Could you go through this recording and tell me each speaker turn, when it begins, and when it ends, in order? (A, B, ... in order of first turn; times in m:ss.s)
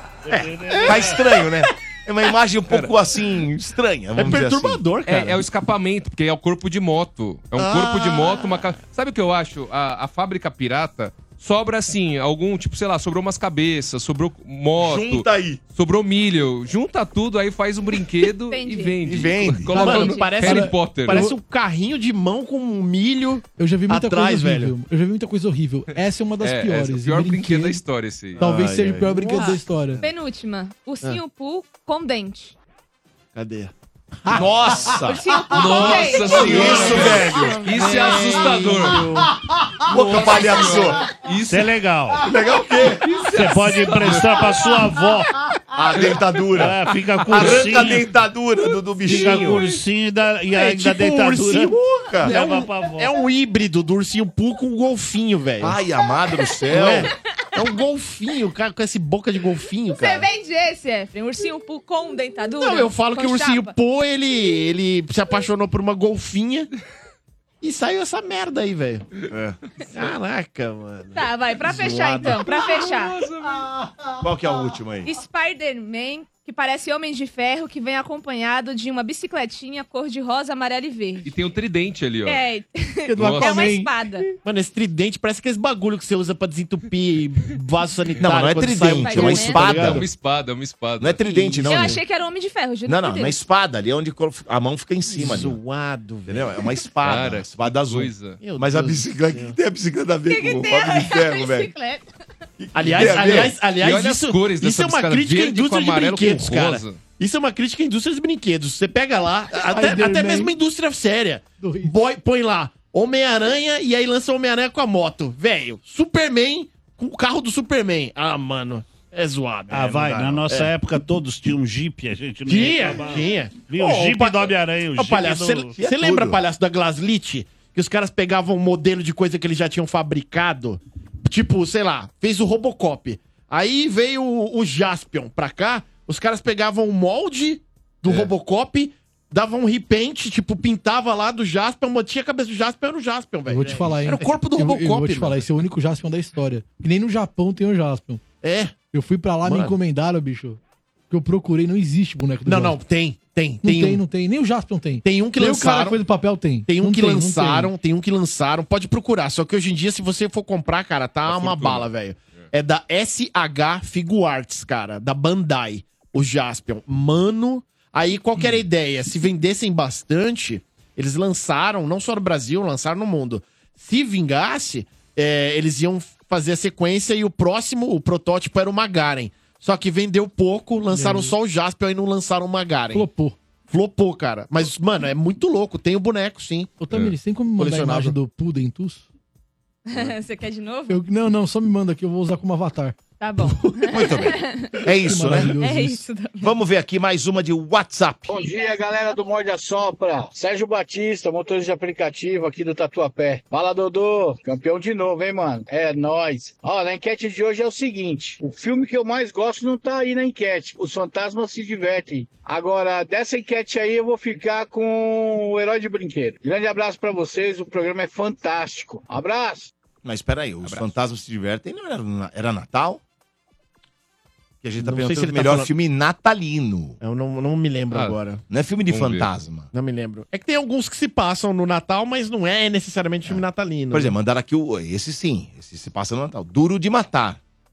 0:00.2-0:01.2 A
0:00.4-0:01.4 B
0:00.8-0:04.8 C
0:04.2-0:05.4 B
0:05.0-0:21.2 D
0:07.6-0:08.7 B
0:14.8-0:15.6 C
0:18.5-0:19.0 E
0:19.0-0:19.8 C
0:19.7-0:21.4 F
0:19.7-0:24.7 B
0:23.6-0:27.8 F
0:26.4-0:28.4 D
0:28.4-0:30.0 F
0:28.4-0:30.1 B
0:29.1-0:32.5 E
0:33.3-0:33.7 B
0:34.2-0:35.0 B
0:34.3-0:35.2 C
0:35.0-0:37.1 E
0:35.5-0:39.1 D
0:35.5-0:39.3 B
0:35.9-0:37.7 C
0:39.9-0:41.0 C
0:39.9-0:41.7 D
0:41.5-0:42.2 A
0:42.2-0:43.1 C
0:43.0-0:44.8 D
0:43.3-0:45.3 A
0:45.7-0:49.6 C
0:46.6-0:48.0 A
0:49.0-0:53.1 A
0:49.1-0:49.6 B
0:50.5-0:51.7 B
0:51.6-0:52.3 C
0:52.2-0:55.8 B
0:55.6-0:57.1 C
0:56.7-1:00.3 B
0:59.9-1:03.7 E
1:02.6-1:06.7 B
1:07.6-1:09.1 B
1:09.3-1:09.6 C
1:09.9-1:12.5 B
1:11.1-1:13.2 E
1:12.3-1:13.7 D
1:14.2-1:15.1 C
1:15.0-1:21.3 E
1:21.2-1:22.4 D
1:22.2-1:24.3 E
1:23.0-1:23.9 F
1:23.2-1:23.8 D
1:24.4-1:30.0 B
1:28.2-1:30.1 C
1:28.9-1:29.8 E
1:29.6-1:31.2 D
1:31.0-1:32.0 C
1:31.2-1:32.0 B
1:31.6-1:33.4 E
1:32.8-1:35.6 C
1:35.1-1:36.7 B
1:36.3-1:41.7 C
1:37.0-1:38.4 D
1:38.4-1:39.6 B
1:40.3-1:42.0 E
1:42.6-1:43.6 C
1:42.7-2:00.7 B
1:43.8-1:47.0 D
1:49.6-1:50.5 F
1:51.6-1:51.9 F
1:59.7-2:05.8 A
2:02.4-2:25.4 B
2:05.8-2:06.4 C
2:23.4-2:28.2 F
2:28.4-2:28.7 B
2:28.9-2:30.6 F
2:29.4-2:29.8 B
2:31.1-2:32.8 F
2:32.4-2:34.0 B
2:33.6-2:37.7 F
2:35.0-2:36.0 B
2:36.6-3:03.1 B
2:41.2-2:41.9 D
3:00.9-3:01.3 F
3:02.9-3:03.4 F
3:03.7-3:06.7 B
3:06.8-3:09.0 F
3:07.6-3:08.2 B
3:09.8-3:11.0 E
3:10.9-3:13.0 F
3:13.2-3:14.9 E
3:13.8-3:15.5 C
3:14.9-3:16.0 F
3:15.5-3:16.6 E
3:16.4-3:18.3 C
3:18.3-3:39.7 G
3:40.0-3:43.0 C
3:40.6-3:40.9 D
3:44.6-3:47.0 C
3:44.8-3:45.7 B
3:47.0-3:48.4 B
3:47.9-3:48.2 D
3:48.5-3:49.7 C
3:48.9-3:49.3 D
3:49.7-3:54.1 B
3:53.2-3:57.4 C